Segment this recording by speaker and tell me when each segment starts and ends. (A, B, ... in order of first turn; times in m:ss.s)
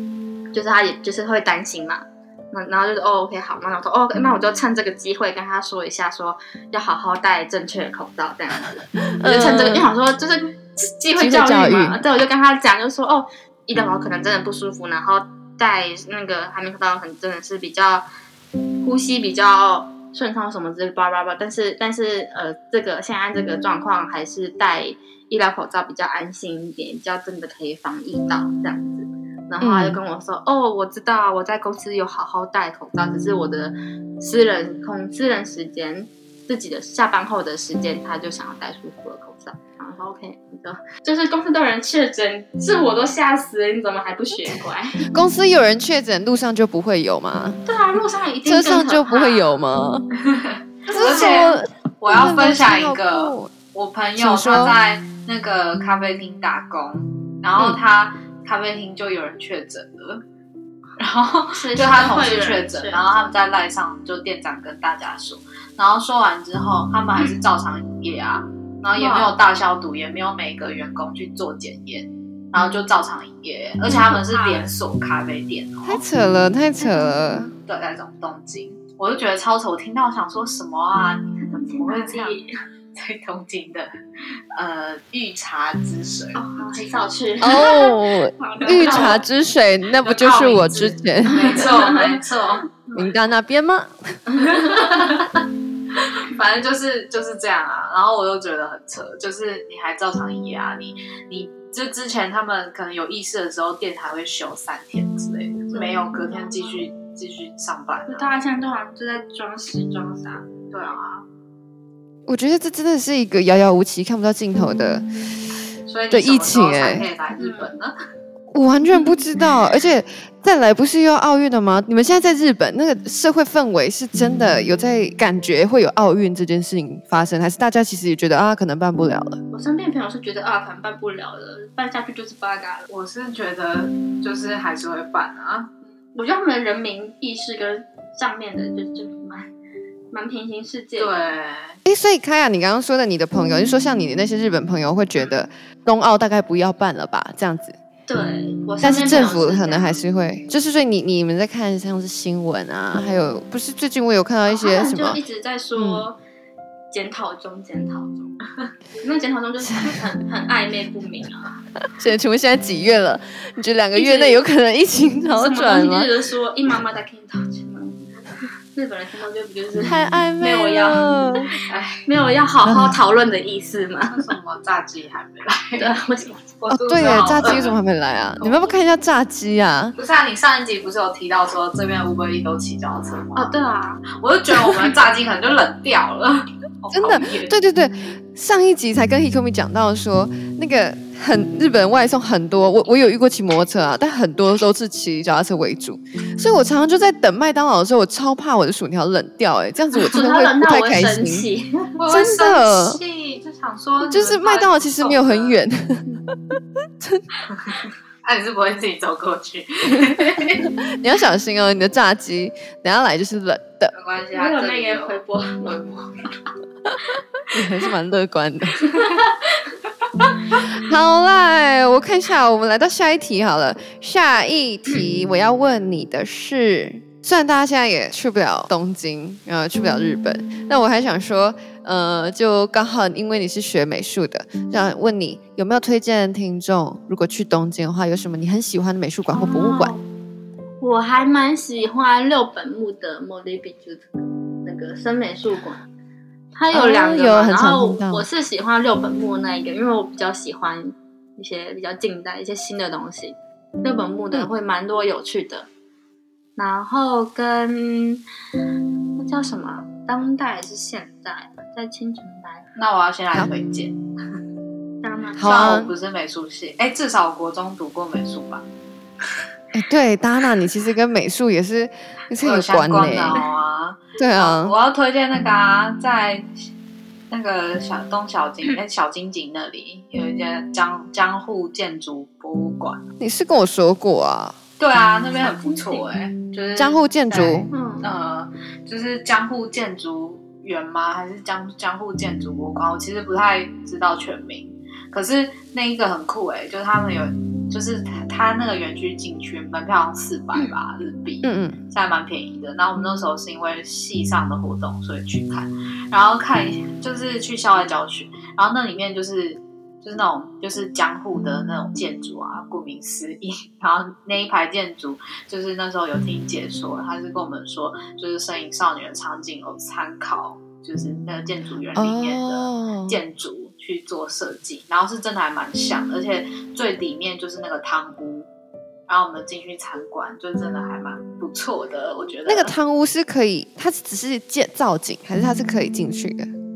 0:00.5-0:18.0 A
0:09.2-0:09.9 B
0:11.2-0:12.0 B
0:18.8-0:45.0 A
0:29.6-0:30.0 B
0:45.1-0:47.6 B
0:47.6-0:49.5 A
0:48.4-0:50.0 B
0:50.3-1:00.2 C
0:50.9-0:51.5 A
0:50.9-0:53.5 B
0:54.2-0:54.8 B
1:01.0-1:16.0 C
1:01.5-1:03.3 A
1:08.9-1:09.3 A
1:13.9-1:14.7 A
1:15.8-1:17.5 B
1:16.8-1:17.1 A
1:17.6-1:22.4 C
1:21.4-1:22.5 A
1:22.9-1:23.9 C
1:24.5-1:26.4 C
1:26.3-1:29.2 A
1:27.4-1:31.7 B
1:28.7-1:29.2 C
1:29.9-1:32.7 C
1:31.3-1:32.2 A
1:32.8-1:33.1 A
1:32.9-1:34.2 B
1:34.3-1:35.2 A
1:34.6-1:35.3 C
1:36.0-1:48.3 C
1:45.7-1:46.8 A
1:48.1-1:50.9 A
1:50.7-1:51.2 C
1:52.3-1:55.0 B
1:55.9-1:57.9 C
1:56.1-1:57.1 B
1:57.4-1:57.7 A
1:58.5-2:09.4 B
1:58.9-1:59.2 A
2:09.5-2:12.9 A
2:12.9-2:15.7 C
2:16.0-2:19.5 A
2:20.1-2:21.3 A
2:21.0-2:21.8 C
2:21.8-2:27.8 B
2:28.1-2:30.0 A
2:28.8-2:35.2 B
2:34.4-2:36.2 A
2:35.7-2:36.0 B
2:36.9-2:38.4 A
2:39.0-2:41.5 A
2:42.0-2:46.1 B
2:43.9-2:44.4 A
2:45.4-2:48.1 A
2:48.7-2:51.1 A
2:49.8-2:51.5 B
2:51.7-2:52.0 C
2:52.0-2:54.3 A
2:52.6-2:52.9 B
2:54.1-2:56.0 C
2:55.8-2:56.5 A
2:56.6-2:57.8 C
2:56.7-2:59.9 B
2:58.4-2:58.7 C
3:00.0-3:03.5 C
3:03.4-3:04.0 A
3:04.1-3:07.5 C
3:06.9-3:21.5 B
3:20.0-3:22.0 A
3:22.0-3:25.6 C
3:22.1-3:23.0 B
3:24.1-3:26.2 B
3:27.6-3:30.6 C
3:30.9-3:33.9 B
3:33.9-3:35.2 C
3:34.3-3:36.1 A
3:37.5-3:38.8 B
3:38.8-3:39.4 A
3:40.7-3:59.9 B
3:59.3-4:00.0 A
4:00.8-4:04.1 A
4:04.6-4:05.8 A
4:06.5-4:15.7 A
4:06.7-4:08.2 B
4:16.6-4:18.2 A
4:19.2-4:22.6 A
4:22.8-4:24.0 C
4:25.0-4:25.6 A
4:25.4-4:25.9 B
4:25.4-4:28.6 C
4:29.7-4:33.4 B
4:32.4-4:36.5 C
4:34.2-4:34.7 B
4:37.3-4:43.1 C
4:43.2-4:44.6 B
4:44.8-5:28.5 C
4:45.4-4:46.1 A
4:46.8-4:47.7 B
4:47.7-4:48.1 A
5:01.4-5:01.8 B
5:21.9-5:23.2 B
5:29.1-5:32.7 C
5:32.4-5:36.5 B